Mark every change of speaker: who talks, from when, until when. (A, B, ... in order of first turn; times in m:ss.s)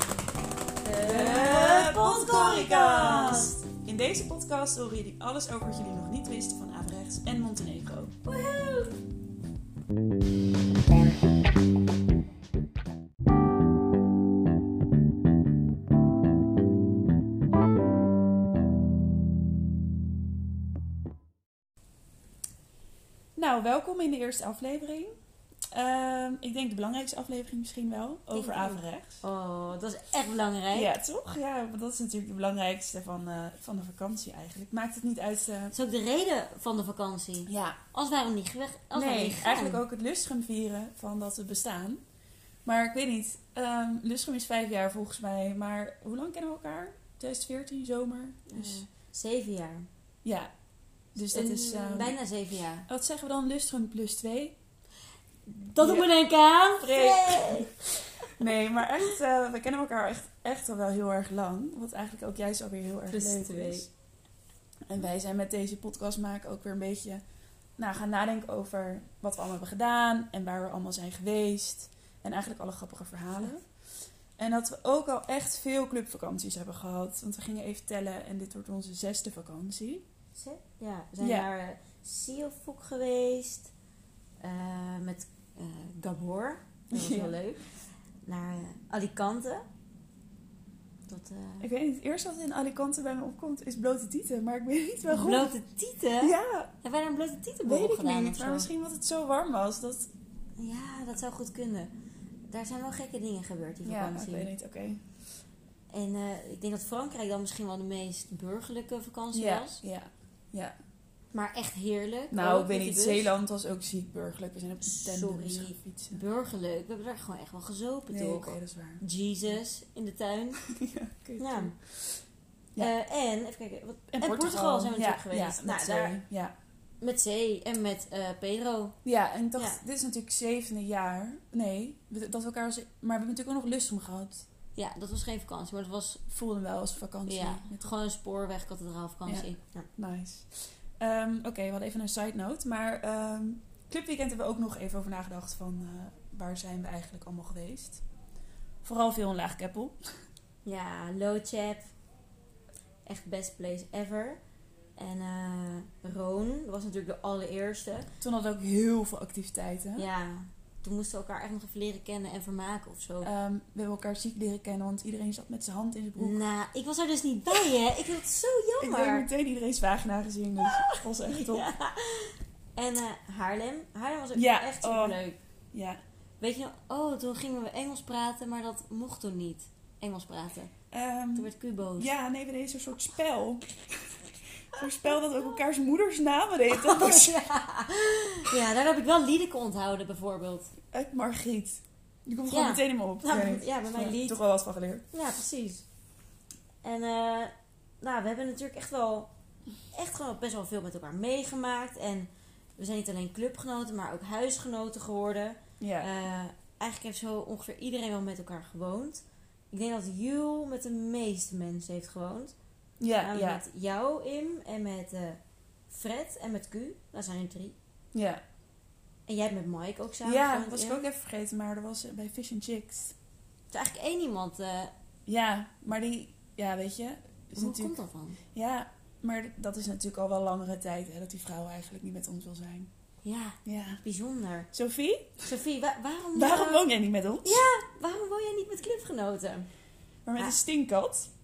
0:00.8-0:03.6 A
0:01.0-0:08.1 B
0:08.2-0:08.9 A
0:23.4-0:25.1 B
0:25.7-0:29.2 B
0:28.3-0:30.9 A
0:30.7-0:35.7 B
0:35.7-0:39.8 A
0:37.5-0:37.8 B
0:38.9-0:42.0 B
0:42.6-0:48.8 B
0:48.5-0:49.8 A
0:50.2-0:50.5 B
0:51.1-0:52.2 B
0:51.2-0:52.9 A
0:52.9-0:54.5 B
0:55.5-0:58.3 A
0:55.8-0:56.1 B
0:56.8-1:03.9 B
1:03.1-1:03.8 A
1:04.9-1:07.2 B
1:07.8-1:13.7 B
1:14.4-1:20.0 B
1:20.3-1:23.7 A
1:21.2-1:21.5 B
1:24.4-1:27.7 A
1:26.9-1:27.4 B
1:28.2-1:29.6 A
1:31.1-1:31.6 A
1:31.6-1:35.5 B
1:35.1-1:38.7 A
1:36.2-1:36.7 B
1:37.6-1:40.1 B
1:40.6-1:41.9 A
1:42.5-1:44.5 A
1:43.8-1:45.0 B
1:45.9-1:49.8 A
1:49.3-1:50.7 B
1:51.3-1:53.3 A
1:52.3-1:56.2 B
1:54.8-2:00.6 A
1:58.1-1:59.0 B
2:00.7-2:02.2 B
2:01.4-2:01.7 A
2:02.8-2:06.2 A
2:04.1-2:06.5 B
2:07.0-2:09.0 A
2:09.0-2:14.4 B
2:09.6-2:09.8 A
2:14.7-2:16.2 A
2:16.3-2:17.8 B
2:17.2-2:19.9 A
2:19.2-2:28.0 B
2:28.8-2:30.0 B
2:30.6-2:31.9 A
2:33.0-2:34.4 A
2:35.0-2:38.1 A
2:38.2-2:40.1 B
2:40.0-2:43.3 A
2:43.2-2:46.4 B
2:46.2-2:49.3 A
2:48.8-2:51.7 B
2:50.6-2:55.4 A
2:54.3-2:55.2 B
2:55.7-2:56.0 B
2:56.4-3:00.7 A
3:00.9-3:03.7 B
3:01.3-3:02.1 A
3:04.7-3:07.4 B
3:04.8-3:05.6 A
3:06.7-3:10.7 A
3:10.9-3:15.0 B
3:12.5-3:14.4 A
3:15.1-3:15.8 A
3:16.8-3:19.3 A
3:19.9-3:32.5 A
3:25.8-3:26.1 B
3:33.0-3:33.6 B
3:33.2-3:35.4 A
3:35.9-3:37.7 A
3:38.1-3:38.4 B
3:39.3-3:41.0 A
3:40.2-3:43.1 B
3:43.7-3:44.9 A
3:45.3-3:47.9 B
3:47.5-3:48.4 A
3:48.5-3:52.9 B
3:53.2-3:54.7 A
3:53.6-3:54.0 B
3:54.7-3:55.5 B
3:55.4-3:56.8 A
3:56.3-3:57.6 B
3:57.4-3:59.7 A
4:00.2-4:01.3 B